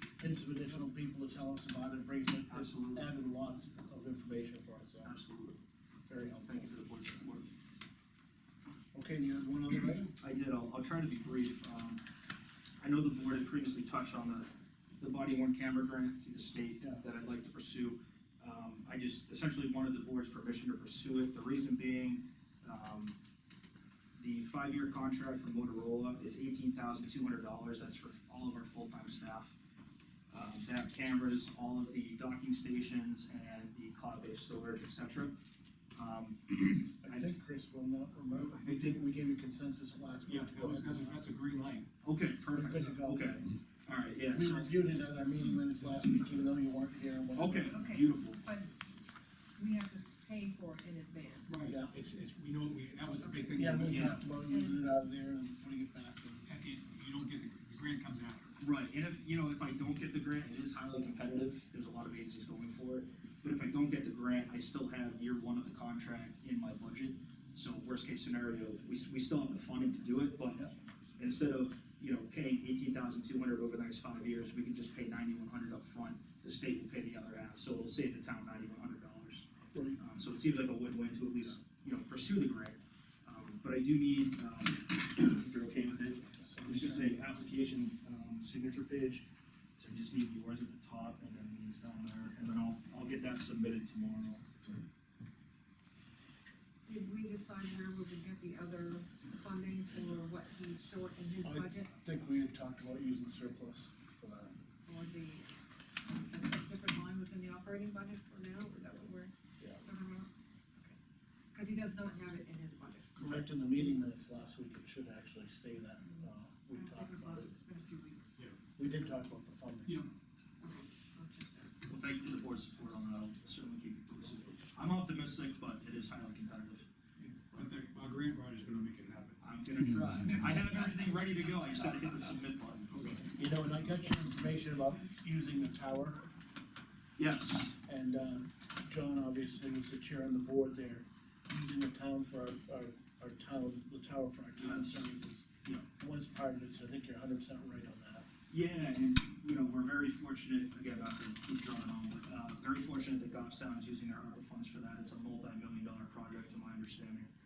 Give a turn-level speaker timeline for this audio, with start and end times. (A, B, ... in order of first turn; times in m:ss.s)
0:00.2-0:05.1 A
0:02.5-0:03.1 B
0:05.0-0:05.6 B
0:06.1-0:06.6 A
0:06.4-0:07.5 B
0:08.9-0:10.2 A
0:10.2-0:12.0 B
0:12.8-0:23.2 B
0:24.2-0:29.5 B
0:30.3-0:35.3 B
0:36.0-0:37.3 B
0:37.0-0:41.2 A
0:38.5-0:39.0 C
0:40.3-0:41.9 C
0:42.0-0:44.7 B
0:42.5-0:43.4 A
0:44.3-0:47.8 A
0:47.3-0:48.4 B
0:47.6-0:48.7 D
0:49.6-0:51.6 D
0:51.5-0:54.3 C
0:51.7-0:51.9 A
0:53.5-0:56.5 A
0:53.8-0:54.2 B
0:54.4-0:54.8 D
0:56.5-0:58.5 C
0:58.6-1:19.5 B
1:19.7-1:20.0 A
1:20.0-1:29.2 B
1:26.4-1:27.2 A
1:29.8-1:34.8 B
1:36.8-1:42.0 D
1:41.4-1:44.5 A
1:44.8-1:45.5 D
1:46.0-1:49.3 D
1:49.8-1:50.3 D
1:51.5-1:53.2 D
1:53.2-1:53.5 C
1:53.2-1:57.5 A
1:56.7-1:58.5 D
1:58.8-2:00.0 A
2:00.6-2:01.7 D
2:01.9-2:06.8 B
2:07.2-2:09.6 C
2:09.4-2:13.1 B
2:10.2-2:11.0 C
2:12.9-2:13.3 C
2:13.3-2:16.3 A
2:17.2-2:17.7 B
2:17.8-2:28.2 A
2:24.6-2:25.1 B
2:28.5-2:37.3 B